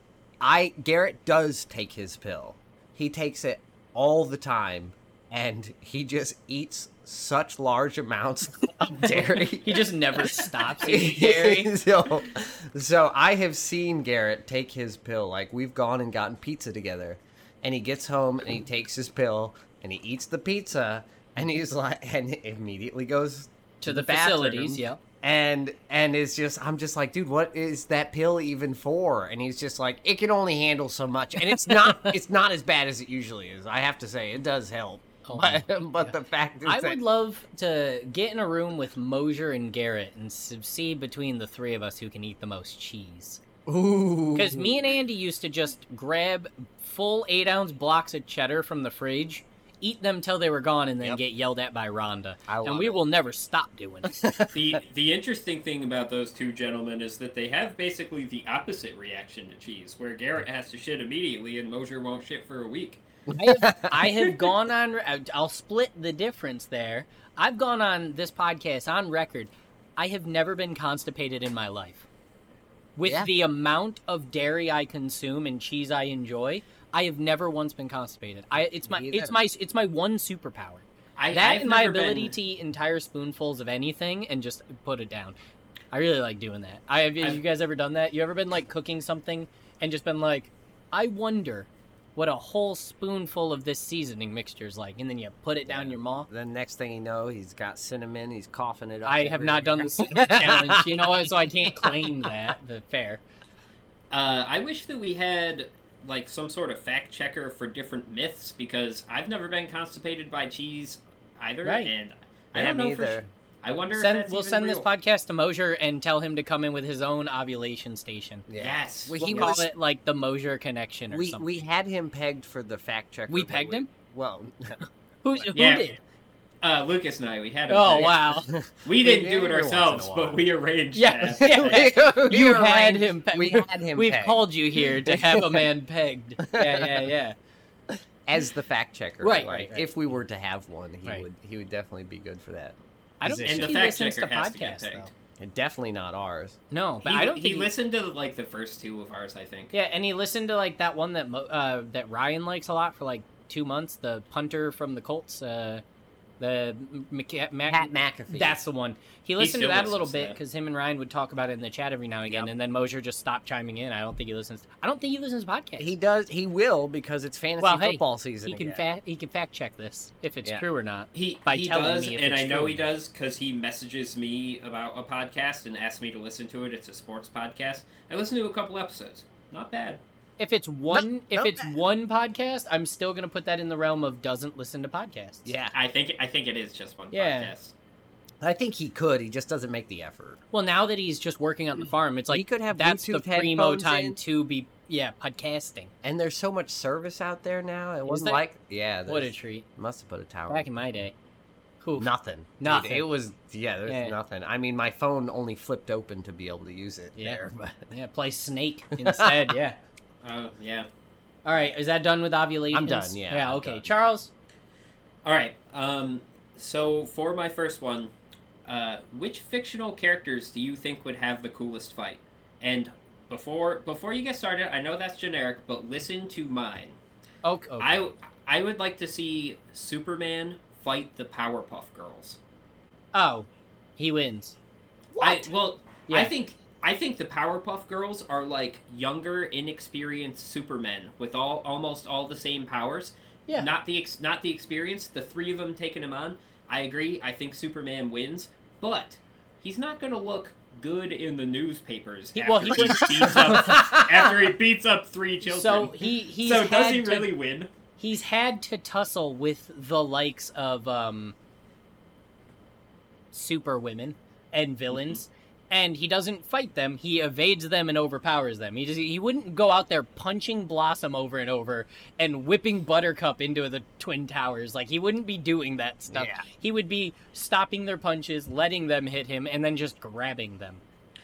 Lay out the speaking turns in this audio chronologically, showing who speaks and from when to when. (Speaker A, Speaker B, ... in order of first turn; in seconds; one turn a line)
Speaker A: 0.4-37.0
Speaker B: 8.9-11.7
Speaker B: 23.8-25.0
Speaker B: 31.5-32.2
Speaker B: 35.2-43.4
Speaker A: 43.7-44.8
Speaker B: 44.4-54.3
Speaker A: 52.5-53.0
Speaker A: 54.1-54.5
Speaker C: 54.5-63.0
Speaker A: 63.3-64.4
Speaker B: 63.4-72.1
Speaker B: 73.0-85.4
Speaker A: 78.8-79.3
Speaker C: 81.2-82.3
Speaker B: 85.9-96.3
Speaker A: 95.7-101.3
Speaker B: 99.0-103.2
Speaker A: 101.8-102.3
Speaker C: 104.1-114.9
Speaker B: 111.6-111.9
Speaker A: 112.5-113.2
Speaker B: 113.9-118.5
Speaker A: 118.5-119.7
Speaker C: 118.6-119.6
Speaker B: 119.2-121.6
Speaker A: 121.1-125.5
Speaker B: 123.3-123.9
Speaker B: 125.2-126.0
Speaker C: 125.5-126.0
Speaker C: 126.6-131.9
Speaker B: 127.7-128.5
Speaker A: 128.0-130.4
Speaker B: 130.9-137.3
Speaker A: 131.4-135.6
Speaker A: 136.5-137.1
Speaker A: 138.2-143.7
Speaker B: 139.2-139.9
Speaker B: 143.2-145.1
Speaker C: 143.5-145.1
Speaker A: 145.4-146.6
Speaker B: 146.7-147.7
Speaker C: 147.1-149.7
Speaker B: 149.7-155.8
Speaker B: 156.4-165.9
Speaker A: 157.7-158.6
Speaker C: 159.4-160.4
Speaker A: 165.8-168.8
Speaker B: 167.6-172.8
Speaker C: 171.1-180.0
Speaker B: 180.4-185.5
Speaker A: 180.9-181.8
Speaker A: 185.4-185.8
Speaker C: 185.7-187.7
Speaker B: 187.1-187.5
Speaker A: 188.4-190.4
Speaker B: 190.5-195.9
Speaker A: 192.3-194.2
Speaker A: 196.0-200.7
Speaker B: 198.1-198.4
Speaker B: 199.1-199.7
Speaker B: 200.5-201.1
Speaker B: 201.8-203.1
Speaker A: 202.0-207.9
Speaker B: 203.9-204.1
Speaker B: 207.9-209.8
Speaker A: 209.0-209.5
Speaker C: 210.2-210.9
Speaker B: 211.4-214.3
Speaker A: 212.7-213.9
Speaker C: 215.2-218.1
Speaker C: 218.7-227.0
Speaker B: 227.4-227.9
Speaker C: 227.8-232.4
Speaker B: 233.1-234.6
Speaker B: 235.1-235.5
Speaker C: 235.2-257.7
Speaker B: 236.1-236.3
Speaker B: 252.3-253.9
Speaker A: 252.8-254.3
Speaker B: 255.4-257.3
Speaker B: 258.0-261.4
Speaker B: 263.3-280.8
Speaker A: 276.1-276.5